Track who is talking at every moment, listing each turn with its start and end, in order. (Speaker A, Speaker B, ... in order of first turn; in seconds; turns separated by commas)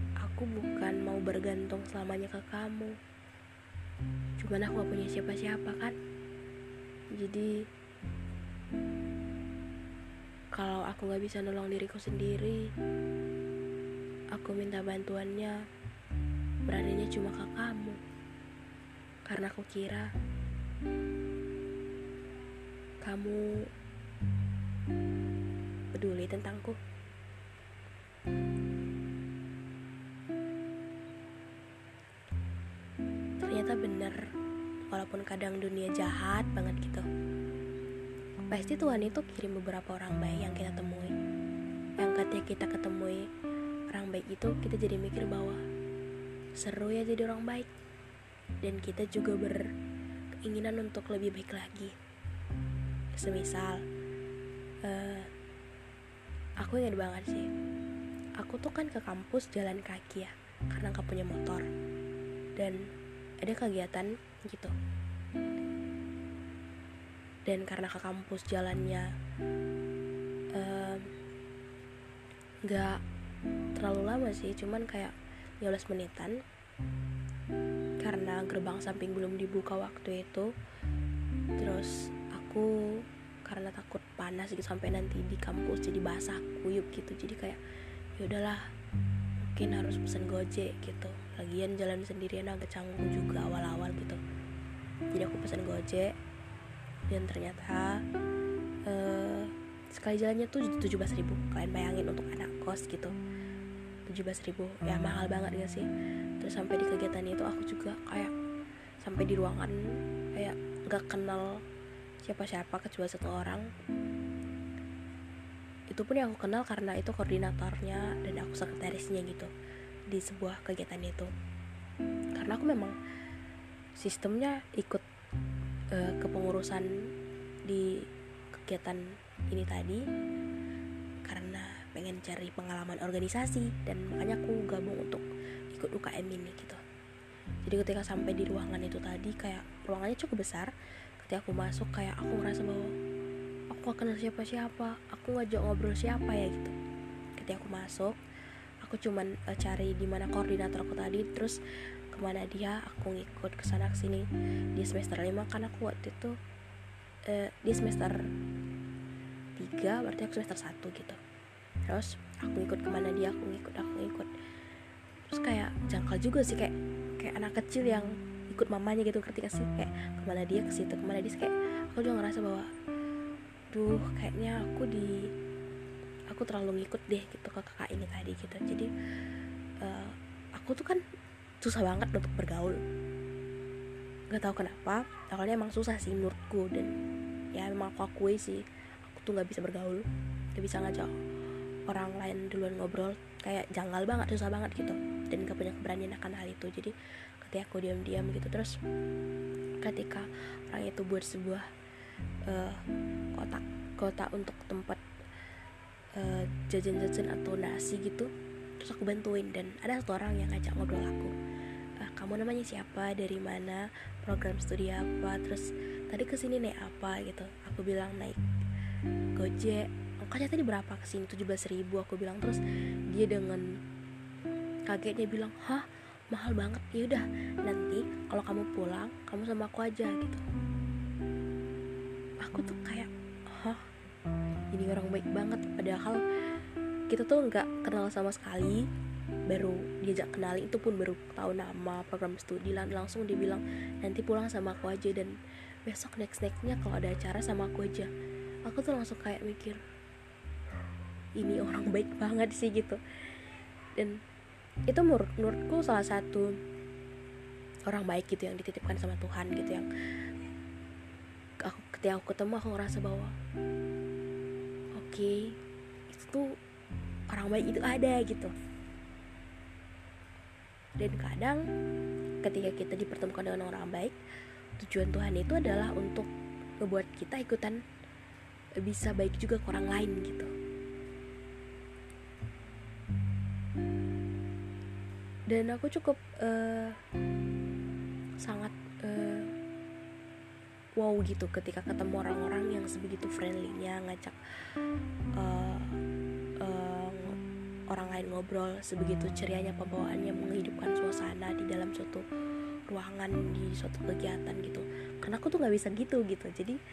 Speaker A: 0.2-3.0, Speaker A: 4.4-6.0, Speaker A: 7.2-7.5, Speaker A: 10.5-12.7, Speaker A: 14.3-15.6, Speaker A: 16.7-18.0, Speaker A: 19.3-20.1, Speaker A: 23.0-23.7, Speaker A: 25.9-26.8, Speaker A: 33.4-34.2, Speaker A: 34.9-37.0, Speaker A: 38.5-41.1, Speaker A: 42.0-43.3, Speaker A: 43.9-45.6, Speaker A: 46.6-47.7, Speaker A: 48.6-49.7, Speaker A: 50.4-51.9, Speaker A: 53.2-53.8, Speaker A: 54.9-55.3, Speaker A: 56.6-57.5, Speaker A: 58.4-61.7, Speaker A: 63.4-64.7, Speaker A: 67.5-69.1, Speaker A: 70.5-71.1, Speaker A: 72.7-73.0, Speaker A: 73.8-76.4, Speaker A: 78.0-80.5, Speaker A: 81.6-82.7, Speaker A: 83.4-87.6, Speaker A: 88.2-88.6, Speaker A: 89.4-94.2, Speaker A: 95.1-96.1, Speaker A: 97.1-98.0, Speaker A: 98.9-103.1, Speaker A: 104.1-105.9, Speaker A: 106.4-108.3, Speaker A: 109.0-109.8, Speaker A: 110.4-111.5, Speaker A: 112.2-113.6, Speaker A: 115.9-119.5, Speaker A: 120.1-121.3, Speaker A: 122.4-122.9, Speaker A: 124.0-125.0, Speaker A: 125.9-126.9, Speaker A: 127.7-128.0, Speaker A: 128.6-130.0, Speaker A: 131.2-136.8, Speaker A: 137.6-140.7, Speaker A: 141.2-142.9, Speaker A: 143.7-146.7, Speaker A: 147.4-148.2, Speaker A: 148.8-151.6, Speaker A: 152.1-156.3, Speaker A: 157.3-158.2, Speaker A: 159.6-161.2, Speaker A: 161.9-164.3, Speaker A: 165.3-172.7, Speaker A: 173.7-175.3, Speaker A: 176.3-178.9, Speaker A: 179.8-181.0, Speaker A: 181.6-182.8, Speaker A: 184.3-186.9, Speaker A: 187.5-191.1, Speaker A: 191.9-198.8, Speaker A: 199.8-201.6, Speaker A: 202.5-202.8, Speaker A: 203.3-205.0, Speaker A: 206.2-211.3, Speaker A: 212.0-218.4, Speaker A: 219.4-223.6, Speaker A: 224.9-230.4, Speaker A: 232.4-233.8, Speaker A: 234.7-236.2, Speaker A: 237.1-238.8, Speaker A: 239.5-245.3, Speaker A: 245.9-248.1, Speaker A: 248.7-249.8, Speaker A: 251.4-253.0, Speaker A: 254.9-256.5, Speaker A: 257.9-259.9, Speaker A: 261.6-263.3, Speaker A: 265.0-265.4, Speaker A: 266.1-266.6, Speaker A: 267.3-268.5, Speaker A: 271.0-271.6, Speaker A: 272.4-274.2, Speaker A: 274.8-276.3, Speaker A: 276.8-277.8, Speaker A: 278.8-280.5, Speaker A: 285.5-287.0, Speaker A: 288.4-289.5, Speaker A: 291.0-294.4, Speaker A: 295.4-295.9, Speaker A: 296.6-297.4, Speaker A: 297.9-302.2, Speaker A: 302.9-306.8